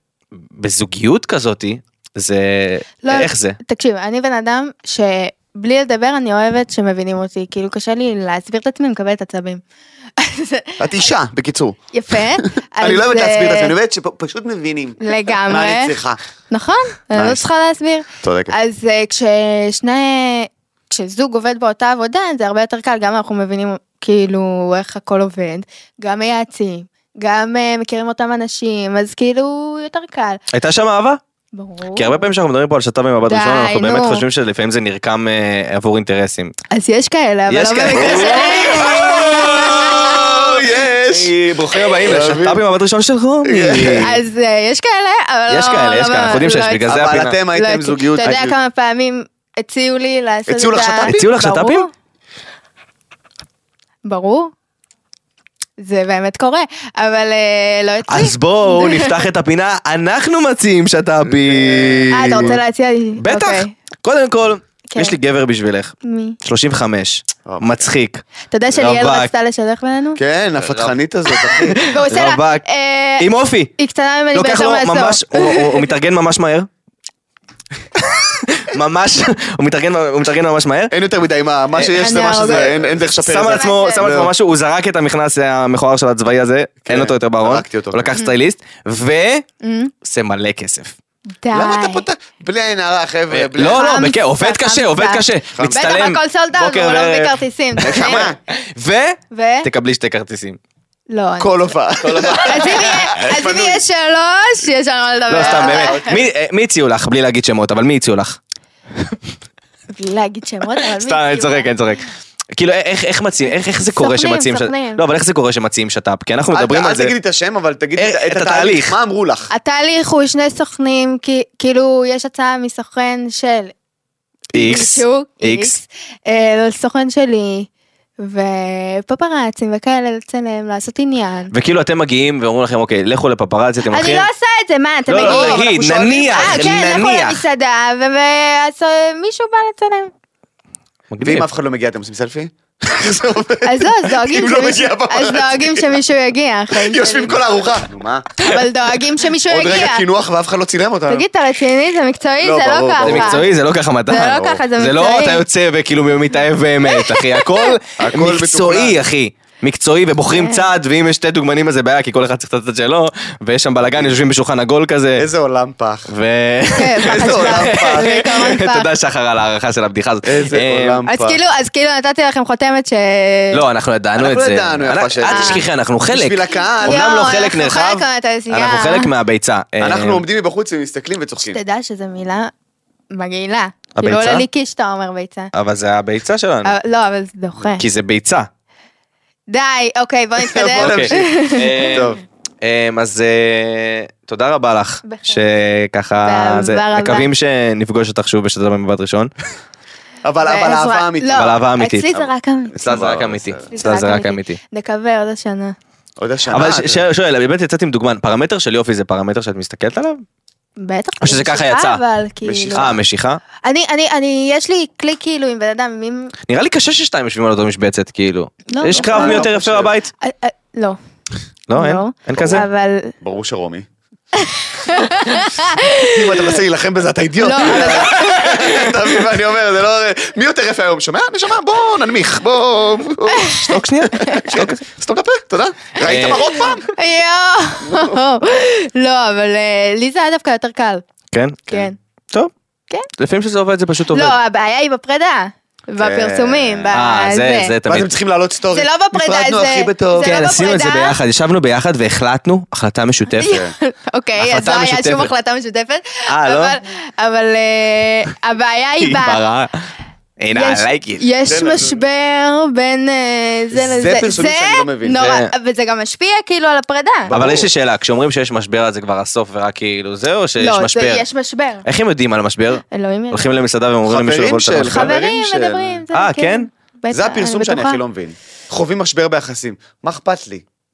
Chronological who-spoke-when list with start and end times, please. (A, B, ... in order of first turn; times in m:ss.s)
0:00.6-0:03.6 A
0:03.0-0:09.6 B
0:10.2-0:11.1 B
0:10.8-0:16.2 C
0:11.9-0:13.7 B
0:15.0-0:16.0 B
0:16.5-0:30.4 B
0:17.1-0:17.4 C
0:18.2-0:18.5 C
0:30.5-0:31.2 A
0:31.5-0:32.3 B
0:32.0-0:36.5 A
0:33.3-0:34.2 B
0:36.7-0:40.3 B
0:37.5-0:44.2 A
0:38.0-0:41.3 C
0:42.0-0:42.6 C
0:43.4-0:44.2 C
0:44.0-0:46.9 B
0:45.5-0:47.4 A
0:46.9-0:48.6 C
0:47.5-0:51.9 B
0:50.5-0:51.3 C
0:51.0-0:51.9 A
0:54.0-0:54.5 B
0:55.8-0:59.2 B
0:58.1-1:02.6 A
1:01.3-1:02.6 C
1:02.1-1:03.7 B
1:03.2-1:09.3 A
1:04.9-1:05.2 B
1:06.0-1:06.4 B
1:07.5-1:07.8 C
1:08.5-1:10.2 B
1:10.2-1:11.8 C
1:10.6-1:11.0 A
1:11.5-1:15.9 B
1:11.7-1:12.7 A
1:13.2-1:13.7 A
1:14.3-1:16.7 A
1:18.3-1:20.9 A
1:20.9-1:24.3 C
1:21.8-1:29.4 A
1:21.9-1:24.1 B
1:26.9-1:28.1 C
1:29.6-1:29.9 B
1:30.0-1:30.9 A
1:31.4-1:32.1 B
1:31.5-1:33.9 C
1:33.3-1:40.6 A
1:33.6-1:38.3 B
1:35.5-1:35.8 C
1:37.8-1:38.4 C
1:39.3-1:39.7 B
1:41.1-1:41.6 B
1:41.4-1:43.8 C
1:42.0-1:43.2 A
1:42.3-1:46.1 B
1:45.3-1:48.4 A
1:45.3-1:46.3 C
1:49.9-1:51.7 B
1:50.8-1:52.0 A
1:52.6-1:57.1 A
1:53.8-1:55.0 B
1:56.5-1:59.5 C
1:58.0-1:59.0 A
1:59.5-2:03.7 B
2:04.5-2:05.8 A
2:04.5-2:07.7 B
2:08.2-2:11.5 B
2:11.5-2:14.3 A
2:13.9-2:15.7 B
2:15.1-2:17.4 A
2:15.1-2:16.8 C
2:16.3-2:20.1 B
2:21.1-2:21.5 A
2:21.2-2:26.0 C
2:23.6-2:27.5 B
2:26.7-2:28.4 C
2:28.4-2:30.0 B
2:29.4-2:31.3 C
2:31.1-2:33.5 B
2:32.4-2:33.5 C
2:33.0-2:45.3 A
2:34.1-2:35.4 B
2:36.9-2:37.8 B
2:38.0-2:39.0 C
2:40.3-2:40.7 B
2:45.2-2:46.1 C
2:46.1-2:51.0 A
2:46.8-2:48.9 B
2:47.0-2:48.4 C
2:50.2-2:51.4 C
2:51.1-2:53.6 B
2:53.5-3:00.2 A
2:54.2-2:57.1 C
2:55.3-2:55.6 B
2:56.8-2:59.1 B
2:59.8-3:01.6 C
3:01.5-3:02.5 B
3:03.1-3:05.5 B
3:04.0-3:04.4 A
3:05.5-3:06.7 A
3:06.6-3:07.8 B
3:07.8-3:08.5 A
3:09.5-3:12.1 B
3:10.4-3:11.3 C
3:10.8-3:19.3 A
3:11.9-3:12.2 C
3:15.0-3:15.4 B
3:16.2-3:17.3 B
3:20.2-3:21.6 C
3:20.4-3:23.0 B
3:21.3-3:22.1 A
3:22.1-3:23.7 C
3:22.8-3:24.6 A
3:23.7-3:25.8 B
3:26.2-3:27.0 C
3:26.5-3:30.2 A
3:30.8-3:33.0 B
3:31.2-3:32.0 A
3:32.4-3:33.0 C
3:32.8-3:33.4 A
3:33.6-3:36.3 B
3:36.5-3:40.1 A
3:38.7-3:39.5 B
3:38.9-3:39.9 C
3:40.2-3:41.0 B
3:41.7-3:42.7 A
3:41.7-3:43.1 B
3:42.3-3:42.7 C
3:43.2-3:43.9 C
3:44.4-3:46.5 B
3:46.0-3:56.9 C
3:47.4-3:48.8 B
3:47.8-3:48.7 A
3:53.3-3:54.4 B
3:53.6-3:54.8 A
3:56.0-3:56.7 A
3:56.8-4:01.0 B
3:57.9-3:58.2 C
4:01.3-4:01.7 A
4:01.7-4:02.0 B
4:03.2-4:04.4 A
4:04.1-4:07.7 B
4:06.0-4:07.0 C
4:06.9-4:08.1 A
4:07.9-4:10.4 C
4:08.7-4:11.2 B
4:10.2-4:13.6 A
4:13.4-4:19.4 B
4:13.4-4:13.7 C
4:14.4-4:15.3 A
4:16.3-4:16.8 A
4:19.0-4:19.7 A
4:20.4-4:21.2 A
4:20.5-4:27.3 B
4:21.5-4:22.0 C
4:23.7-4:25.3 C
4:25.2-4:25.5 A
4:27.3-4:27.7 C
4:27.3-4:31.2 A
4:30.6-4:31.9 B
4:31.8-4:35.1 A
4:32.9-4:33.5 B
4:34.1-4:36.0 C
4:34.9-4:38.0 B
4:36.1-4:36.7 A
4:37.1-4:40.6 C